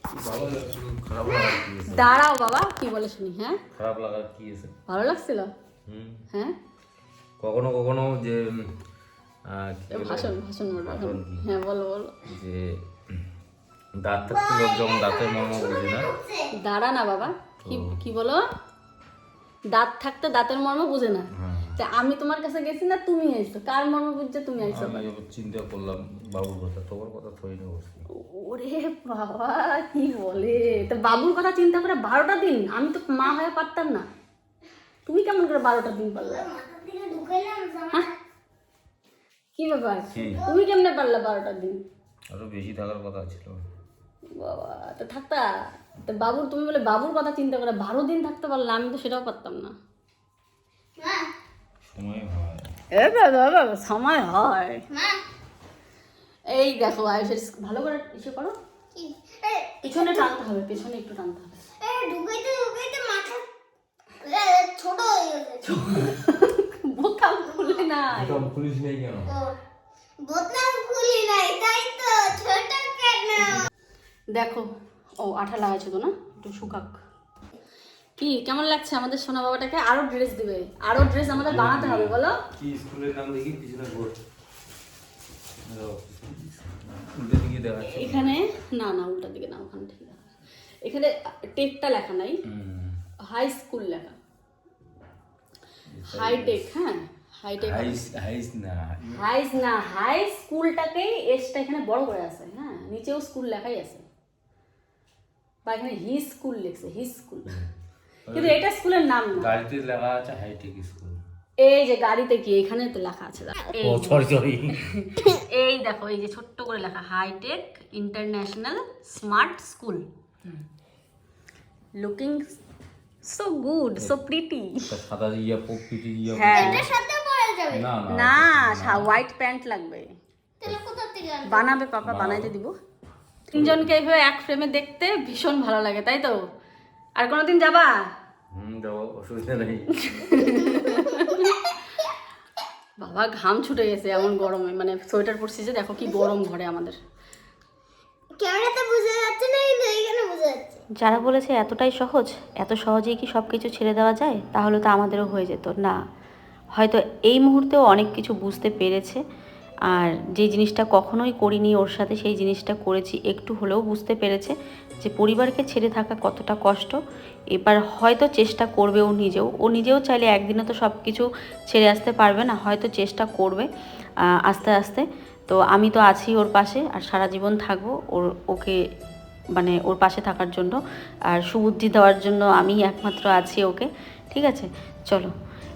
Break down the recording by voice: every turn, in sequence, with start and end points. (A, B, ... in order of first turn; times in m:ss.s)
0:00.1-0:02.1 A
0:01.8-0:03.6 B
0:03.7-0:04.7 A
0:04.9-0:05.5 B
0:05.9-0:06.2 A
0:07.4-0:08.7 A
0:09.5-0:11.4 A
0:09.9-0:12.2 B
0:12.2-0:13.2 A
0:14.0-0:16.1 A
0:14.3-0:16.5 C
0:16.5-0:18.4 B
0:17.6-0:18.0 A
0:19.7-0:25.0 B
0:21.3-0:21.8 A
0:24.6-0:28.0 A
0:28.1-0:34.1 B
0:30.4-0:30.8 A
0:35.0-0:36.4 B
0:36.2-0:38.2 C
0:39.6-0:41.8 B
0:40.1-0:40.4 A
0:40.3-0:40.6 C
0:42.3-0:43.6 A
0:44.3-0:45.4 B
0:46.0-0:49.7 B
0:51.0-0:51.3 C
0:51.9-0:52.7 A
0:52.9-0:54.8 B
0:54.9-0:55.2 C
0:56.5-0:58.6 B
0:58.9-1:00.3 C
0:59.8-1:01.6 B
1:01.8-1:03.4 C
1:04.2-1:05.7 C
1:05.6-1:08.5 B
1:07.6-1:07.8 C
1:08.1-1:09.3 A
1:09.3-1:09.6 C
1:10.2-1:13.6 C
1:14.3-1:14.7 B
1:15.2-1:16.9 B
1:18.2-1:22.4 B
1:21.1-1:24.2 A
1:25.6-1:28.4 A
1:27.8-1:30.2 B
1:30.8-1:32.4 B
1:32.5-1:33.0 A
1:33.3-1:34.2 B
1:35.9-1:36.6 A
1:36.1-1:38.0 B
1:37.6-1:39.2 A
1:39.1-1:44.0 B
1:45.6-1:47.5 B
1:48.2-1:48.6 A
1:48.3-1:49.5 B
1:49.3-1:51.2 A
1:51.6-2:00.0 B
1:53.8-1:55.1 A
2:02.0-2:02.5 B
2:03.2-2:04.9 B
2:04.8-2:06.9 A
2:06.3-2:06.8 B
2:06.5-2:07.9 C
2:07.7-2:09.1 A
2:08.1-2:10.1 B
2:10.6-2:11.7 C
2:11.4-2:12.7 B
2:12.0-2:12.5 A
2:13.5-2:16.4 B
2:13.5-2:13.8 A
2:17.2-2:18.0 B
2:18.5-2:20.3 A
2:19.9-2:22.1 B
2:23.0-2:27.0 B
2:26.0-2:26.4 C
2:28.4-2:30.8 C
2:31.0-2:36.0 B
2:36.7-2:39.2 B
2:39.9-2:47.0 B
2:47.5-2:53.7 B
2:54.4-2:58.8 B
2:59.6-3:00.8 B
3:01.3-3:05.3 B